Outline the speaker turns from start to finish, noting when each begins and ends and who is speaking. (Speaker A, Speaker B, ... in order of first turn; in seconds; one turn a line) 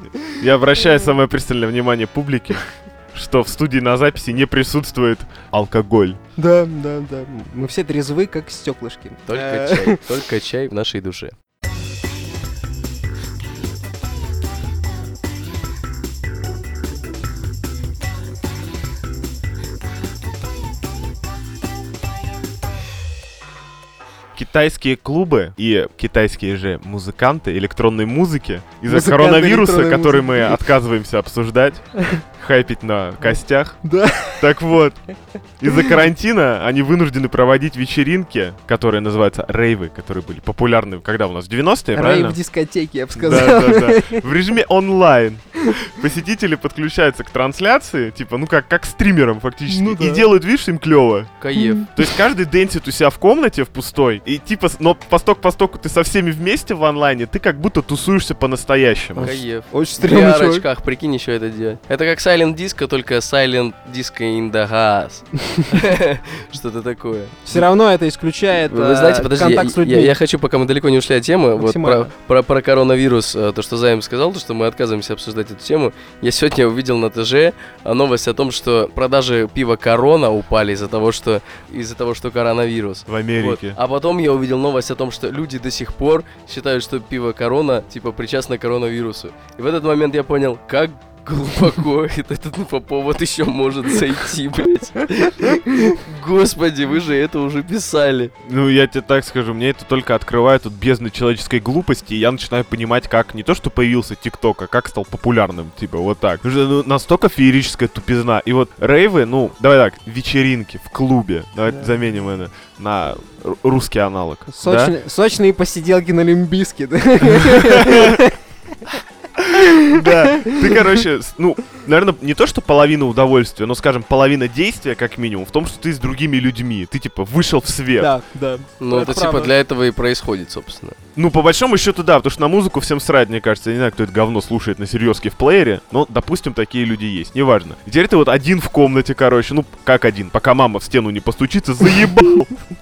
Speaker A: 0.4-6.2
Speaker B: 6.4-10.1
Speaker C: 9.3-11.3
Speaker A: 24.4-35.0
Speaker B: 28.9-30.6
Speaker B: 33.8-34.5
Speaker A: 35.6-42.4
Speaker B: 41.9-44.2
Speaker A: 43.2-51.3
Speaker B: 49.7-50.2
Speaker C: 51.4-51.9
Speaker B: 51.5-51.9
Speaker A: 52.0-59.3
Speaker B: 59.2-60.6
Speaker C: 59.2-67.7
Speaker B: 67.5-70.1
Speaker C: 68.6-98.3
Speaker B: 71.6-72.1
Speaker A: 83.1-83.8
Speaker A: 98.4-114.9
Speaker B: 114.5-118.4
Speaker A: 117.3-118.2
Speaker A: 119.4-128.1
Speaker B: 119.5-120.9
Speaker B: 128.0-129.5
Speaker C: 128.8-131.0
Speaker A: 131.2-142.6